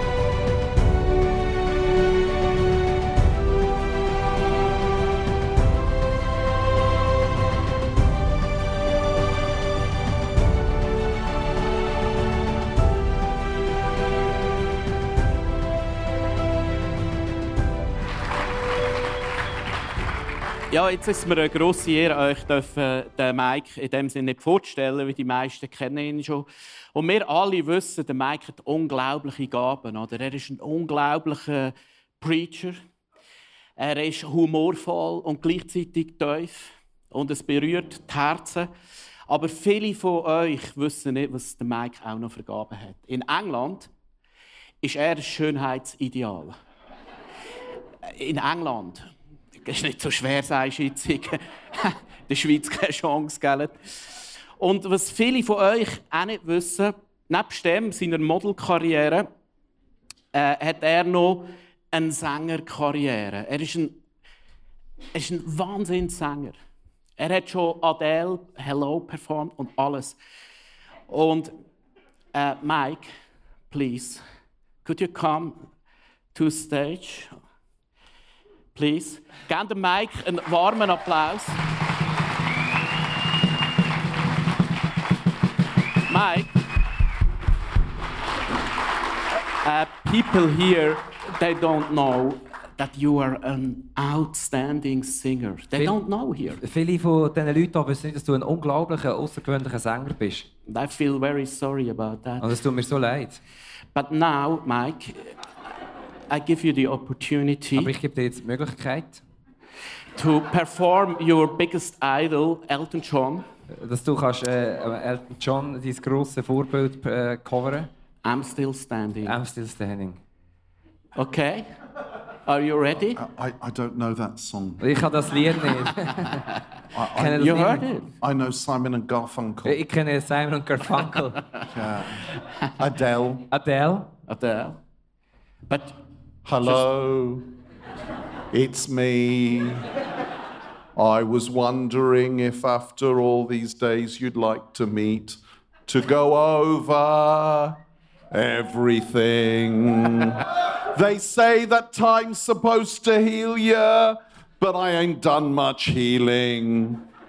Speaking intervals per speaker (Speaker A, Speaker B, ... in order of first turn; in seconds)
Speaker A: 20.7-32.8, 33.8-38.7, 39.3-43.9, 44.8-46.5, 48.0-59.3, 60.3-64.0, 65.1-66.6, 67.2-70.2, 71.1-71.5, 72.3-73.1, 73.7-74.2, 74.8-75.7, 76.3-77.3, 78.8-81.6, 86.1-86.5, 89.6-96.6, 100.7-102.5, 103.9-105.3, 106.3-107.9, 110.2-113.5, 118.2-119.4, 121.2-121.7, 122.5-123.2, 127.3-128.1, 134.3-134.8, 135.7-136.0
Speaker B: 96.6-100.5, 102.4-103.4, 107.8-109.2, 113.7-117.9, 119.2-120.2, 124.8-126.5, 127.1-127.8, 129.7-131.4, 133.5-134.1
Speaker C: 123.2-124.9, 126.9-129.8, 131.7-132.2, 132.8-133.5, 136.4-137.5, 138.5-139.9, 140.9-147.8, 148.3-157.1